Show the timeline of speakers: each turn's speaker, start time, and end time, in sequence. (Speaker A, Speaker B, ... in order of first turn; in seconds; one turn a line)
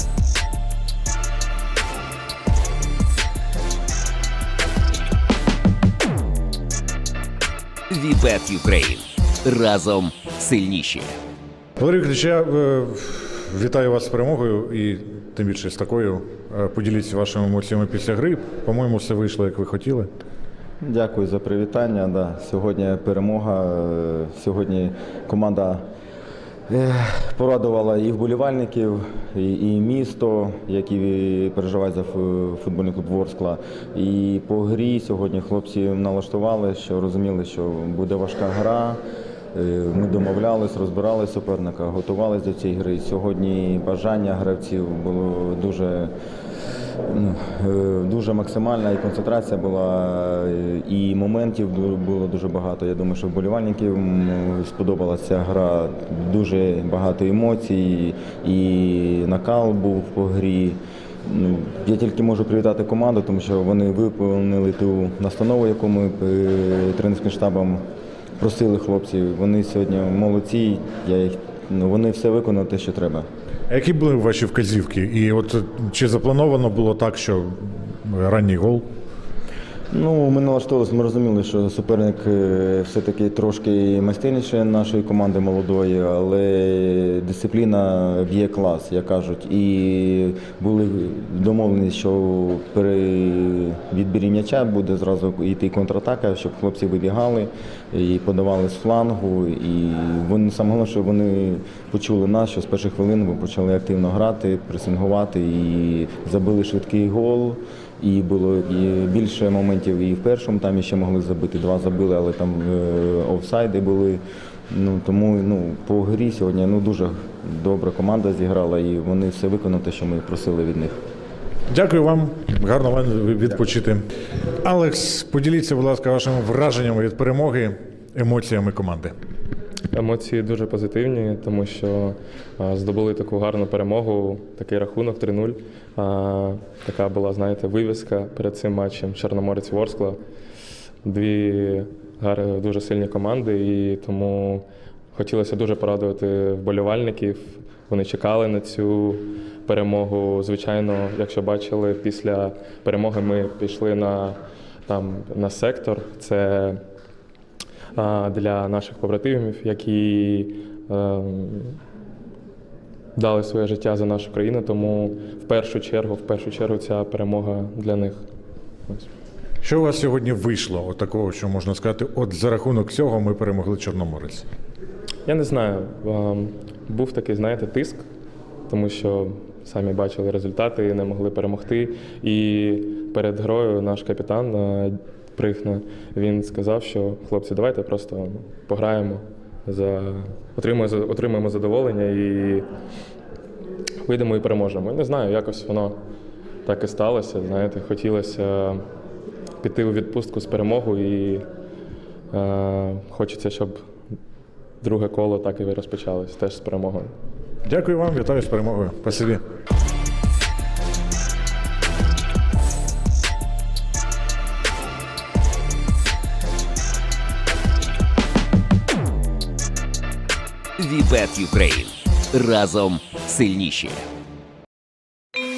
Speaker A: 7.9-11.1
Speaker B: 11.8-20.1
Speaker C: 20.8-25.8
Speaker C: 26.7-39.0
Speaker C: 39.5-46.1
Speaker C: 47.1-67.8
Speaker C: 68.4-73.2
Speaker B: 73.7-78.9
Speaker C: 79.9-121.0
Speaker B: 121.7-124.0
Speaker B: 124.6-129.2
Speaker D: 129.9-140.2
Speaker D: 141.0-156.8
Speaker D: 157.9-161.8
Speaker D: 163.2-168.2
Speaker B: 169.6-174.4
Speaker D: 175.2-178.0
Speaker D: 178.7-192.7
Speaker D: 194.0-196.0
Speaker D: 196.7-198.9
Speaker D: 199.6-201.5
Speaker D: 202.3-203.9
Speaker D: 204.8-207.1
Speaker B: 207.7-209.4
Speaker A: 220.8-224.0